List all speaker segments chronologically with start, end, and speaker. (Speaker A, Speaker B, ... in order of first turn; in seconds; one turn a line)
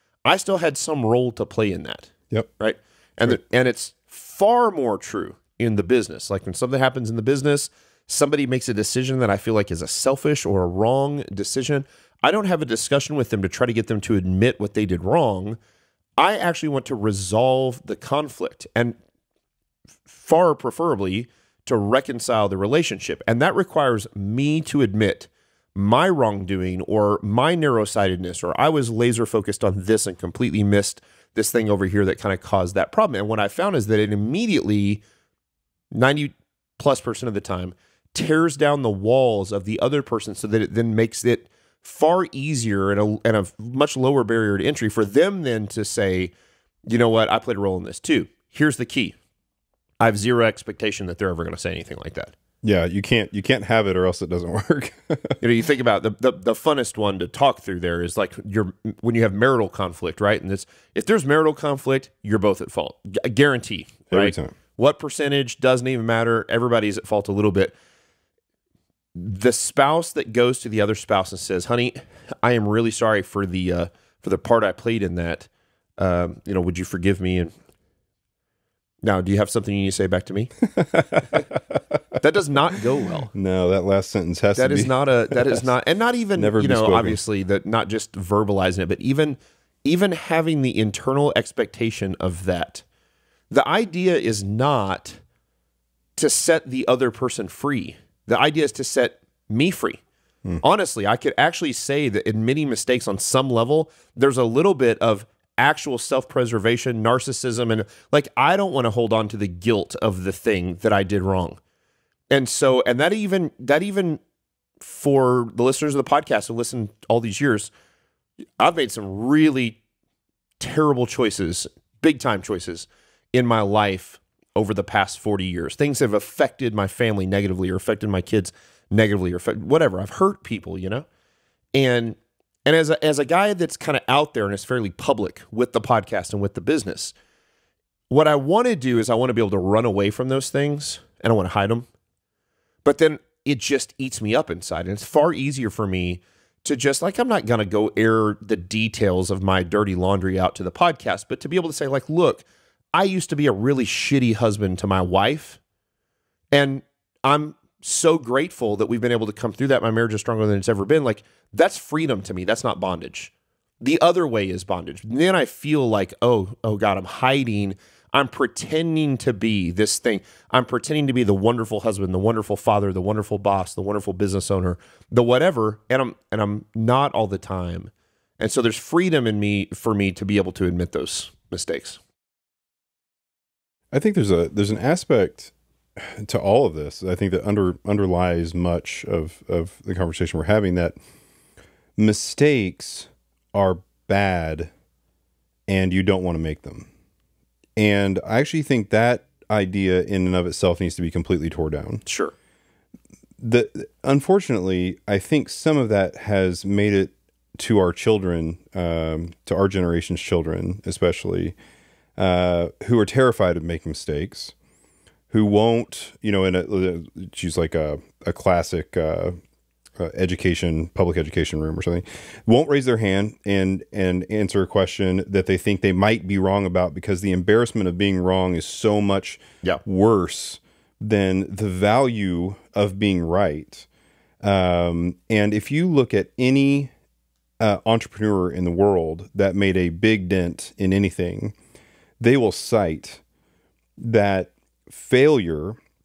Speaker A: 0.2-15.6
Speaker A: 16.2-18.9
Speaker A: 20.1-35.0
Speaker A: 35.9-46.3
Speaker A: 46.9-49.1
Speaker A: 50.0-52.3
Speaker B: 52.6-55.4
Speaker A: 55.4-67.8
Speaker B: 64.1-64.5
Speaker A: 69.1-77.5
Speaker A: 79.0-80.5
Speaker B: 80.6-82.2
Speaker A: 82.2-83.3
Speaker B: 83.3-85.6
Speaker A: 84.5-92.8
Speaker B: 86.3-87.2
Speaker A: 93.5-95.2
Speaker A: 96.2-100.0
Speaker A: 100.6-111.6
Speaker A: 112.3-114.2
Speaker A: 114.8-117.7
Speaker A: 118.6-119.8
Speaker A: 120.6-131.1
Speaker A: 131.8-137.1
Speaker A: 138.1-141.9
Speaker A: 142.8-155.6
Speaker A: 156.5-182.0
Speaker B: 183.9-190.9
Speaker B: 192.0-194.7
Speaker B: 195.7-196.9
Speaker B: 197.8-202.0
Speaker A: 202.1-202.3
Speaker B: 203.4-211.6
Speaker B: 212.2-214.5
Speaker B: 215.3-219.3
Speaker B: 220.0-233.9
Speaker B: 234.4-236.9
Speaker B: 237.6-241.5
Speaker B: 242.2-243.2
Speaker B: 244.0-245.8